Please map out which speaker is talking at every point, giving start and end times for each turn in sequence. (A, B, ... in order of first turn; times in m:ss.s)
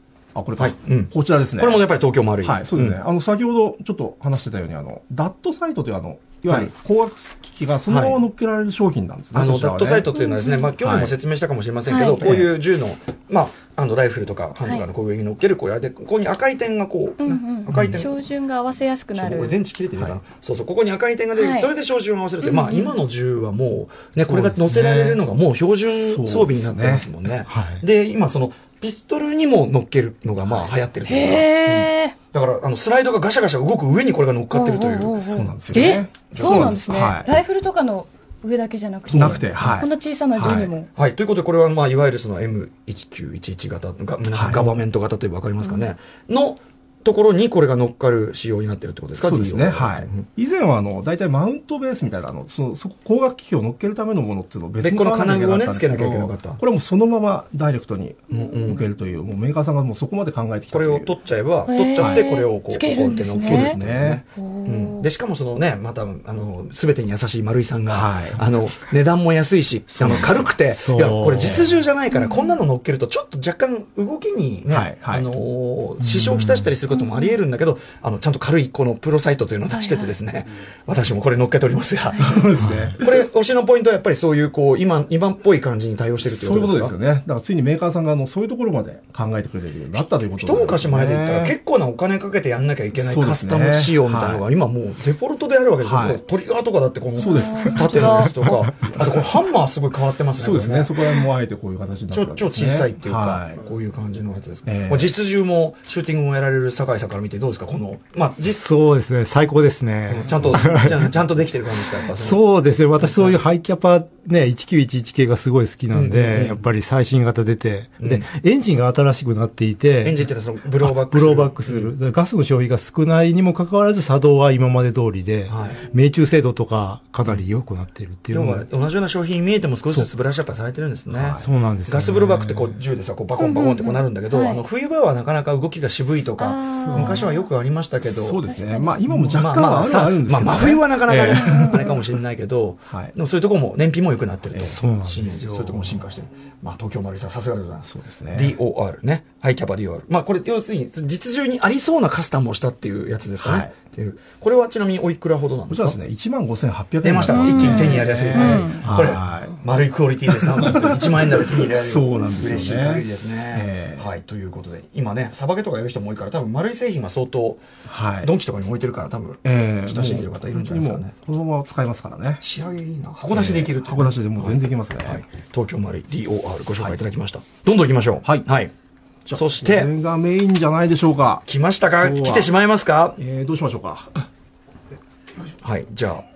0:00.3-0:01.9 A
0:00.6-0:03.0 B
0:02.4-0:10.1 A
0:07.9-0:08.2 B
0:09.3-0:18.2 B
0:10.1-0:10.7 C
0:10.8-0:11.2 A
0:11.9-0:12.5 C
0:12.2-0:12.5 A
0:14.6-0:14.9 C
0:17.2-0:19.6 C
0:17.7-0:18.0 D
0:19.1-0:35.2 B
0:21.3-0:21.7 C
0:22.4-0:23.0 C
0:24.3-0:24.5 A
0:24.3-0:25.2 D
0:25.9-0:27.1 A
0:27.5-0:27.8 D
0:31.0-0:32.2 C
0:34.5-0:40.9 C
0:35.2-0:37.4 A
0:36.3-0:36.8 B
0:39.1-0:40.7 A
0:40.9-0:50.2 B
0:44.3-0:44.8 A
0:49.2-1:01.1 A
0:54.8-0:56.6 B
0:58.3-0:58.8 B
1:00.7-1:26.9 B
1:01.7-1:03.8 C
1:02.0-1:02.3 A
1:03.4-1:04.2 A
1:04.3-1:05.1 C
1:07.9-1:08.4 A
1:09.9-1:10.5 A
1:10.7-1:11.6 D
1:11.4-1:11.7 A
1:12.1-1:12.6 C
1:14.7-1:15.3 A
1:16.0-1:16.6 D
1:16.9-1:17.4 C
1:19.7-1:20.2 C
1:22.1-1:22.4 C
1:22.2-1:23.2 A
1:22.6-1:23.0 D
1:26.2-1:31.6 A
1:30.3-1:40.9 B
1:32.9-1:34.4 A
1:35.8-1:36.2 A
1:37.2-1:38.4 C
1:37.2-1:39.3 A
1:40.4-1:43.6 A
1:42.1-1:48.6 B
1:44.6-1:45.1 A
1:48.6-1:51.1 D
1:50.2-1:52.4 B
1:52.2-2:00.2 D
1:53.0-1:53.4 B
1:55.9-1:56.6 B
2:00.0-2:01.9 B
2:00.8-2:08.6 D
2:05.5-2:05.8 B
2:08.3-2:18.4 B
2:11.1-2:11.5 A
2:11.4-2:12.8 D
2:13.4-2:14.6 C
2:16.4-2:17.5 C
2:16.8-2:17.2 D
2:18.0-2:21.9 A
2:18.4-2:19.0 C
2:19.1-2:19.3 D
2:19.2-2:36.0 B
2:21.3-2:22.0 C
2:22.9-2:23.1 A
2:24.5-2:24.8 A
2:24.6-2:26.0 D
2:27.8-2:28.6 A
2:33.4-2:33.7 A
2:35.7-2:39.6 A
2:37.0-2:47.6 B
2:37.2-2:38.9 C
2:40.3-2:44.1 A
2:47.9-2:48.3 A
2:48.2-2:51.1 B
2:49.4-2:52.4 A
2:52.4-2:58.7 B
2:53.3-2:55.2 A
2:59.2-3:01.4 A
2:59.3-2:59.9 B
3:01.4-3:03.2 B
3:02.0-3:02.5 A
3:03.2-3:04.3 A
3:05.6-3:06.2 B